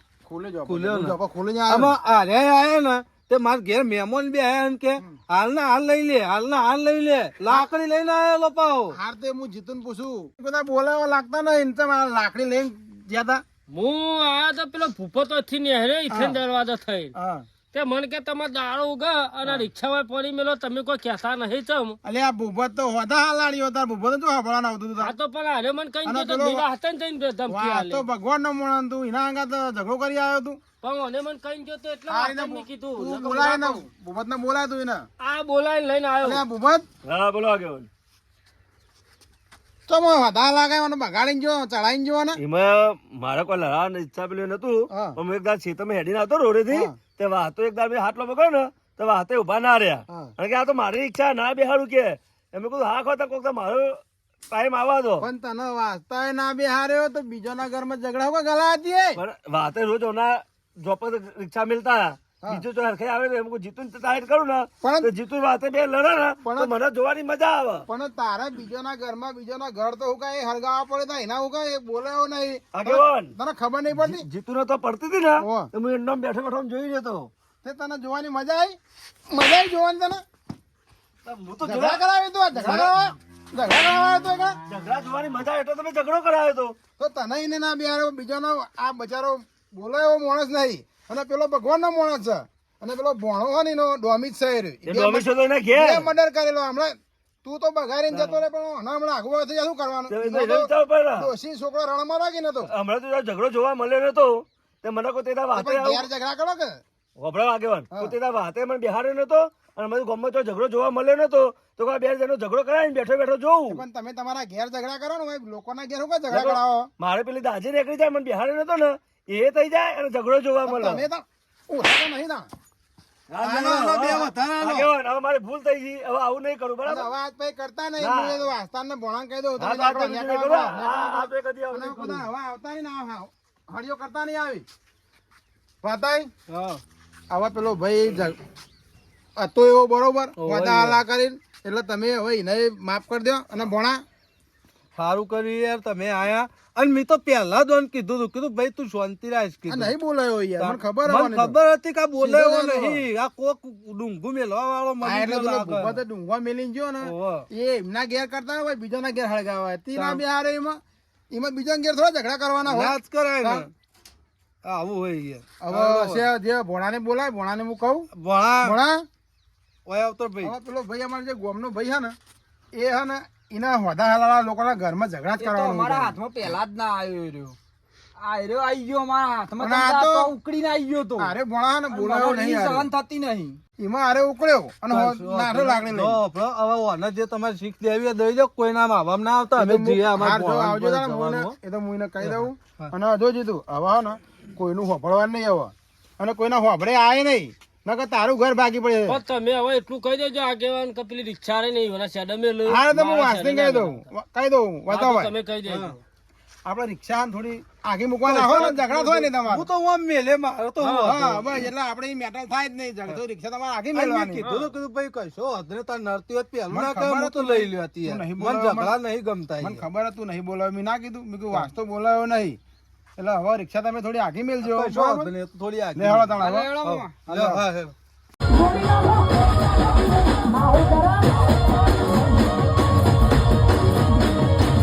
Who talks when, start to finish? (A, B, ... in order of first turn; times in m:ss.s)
0:00.2-0:02.0 A
0:00.7-0:01.2 B
0:01.7-0:09.0 B
0:08.9-0:13.4 A
0:13.7-0:17.1 C
0:16.1-0:16.4 A
0:17.2-0:17.5 A
0:17.7-0:22.0 C
0:22.0-0:25.1 A
0:25.0-0:28.0 C
0:26.0-0:26.6 A
0:27.5-0:30.6 A
0:30.8-0:33.8 C
0:32.1-0:35.1 A
0:35.2-0:36.4 C
0:36.2-0:36.9 A
0:37.0-0:37.9 D
0:39.9-0:42.4 A
0:42.4-0:55.3 D
0:44.9-0:45.2 A
0:46.7-0:47.0 A
0:55.2-0:59.2 A
0:59.2-1:07.9 D
1:04.8-1:05.1 A
1:06.4-1:06.7 A
1:07.9-1:14.3 A
1:12.7-1:13.3 D
1:13.9-1:17.3 D
1:15.4-1:15.7 A
1:17.6-1:18.8 A
1:19.3-1:20.2 A
1:21.2-1:22.0 D
1:21.6-1:24.6 A
1:22.6-1:22.9 D
1:24.7-1:26.8 D
1:27.0-1:42.7 A
1:34.8-1:36.1 D
1:38.1-1:38.4 D
1:40.1-1:41.3 D
1:42.7-1:46.1 D
1:45.5-1:46.8 A
1:47.2-1:53.8 D
1:53.7-1:56.9 A
1:56.3-2:01.0 D
2:00.7-2:02.5 A
2:03.3-2:07.1 D
2:03.4-2:04.9 B
2:06.8-2:14.7 A
2:08.0-2:08.5 D
2:09.6-2:12.3 D
2:15.8-2:16.3 A
2:16.5-2:16.8 B
2:17.3-2:18.4 A
2:19.4-2:24.0 A
2:20.4-2:21.0 B
2:25.0-2:29.9 B
2:29.7-2:31.6 A
2:30.6-2:36.0 B
2:32.2-2:33.0 A
2:35.0-2:40.8 A
2:37.0-2:37.5 B
2:39.9-2:40.2 B
2:41.3-2:43.7 A
2:42.7-2:43.7 B
2:44.6-2:46.3 B
2:45.6-2:48.1 A
2:48.2-2:48.8 B
2:48.6-2:49.0 A
2:49.9-2:50.5 B
2:50.4-2:52.2 A
2:52.8-2:56.2 A
2:55.4-2:57.6 E
2:58.2-3:01.3 E
2:59.6-3:00.3 A
3:01.2-3:02.9 A
3:01.9-3:03.6 E
3:03.8-3:06.2 A
3:04.9-3:11.5 B
3:09.6-3:19.2 A
3:12.2-3:12.9 B
3:19.1-3:24.1 C
3:22.7-3:25.3 A
3:24.9-3:26.0 C
3:25.7-3:26.0 B
3:26.7-3:29.7 A
3:28.3-3:31.4 B
3:30.8-3:31.2 C
3:31.0-3:34.4 A
3:33.9-3:39.8 B
3:34.4-3:34.7 C
3:36.7-3:39.0 A
3:39.6-3:42.6 A
3:43.2-3:45.3 A
3:44.6-3:47.9 B
3:46.0-3:46.8 A
3:46.4-3:47.1 E
3:47.3-3:47.6 A
3:48.5-3:52.5 E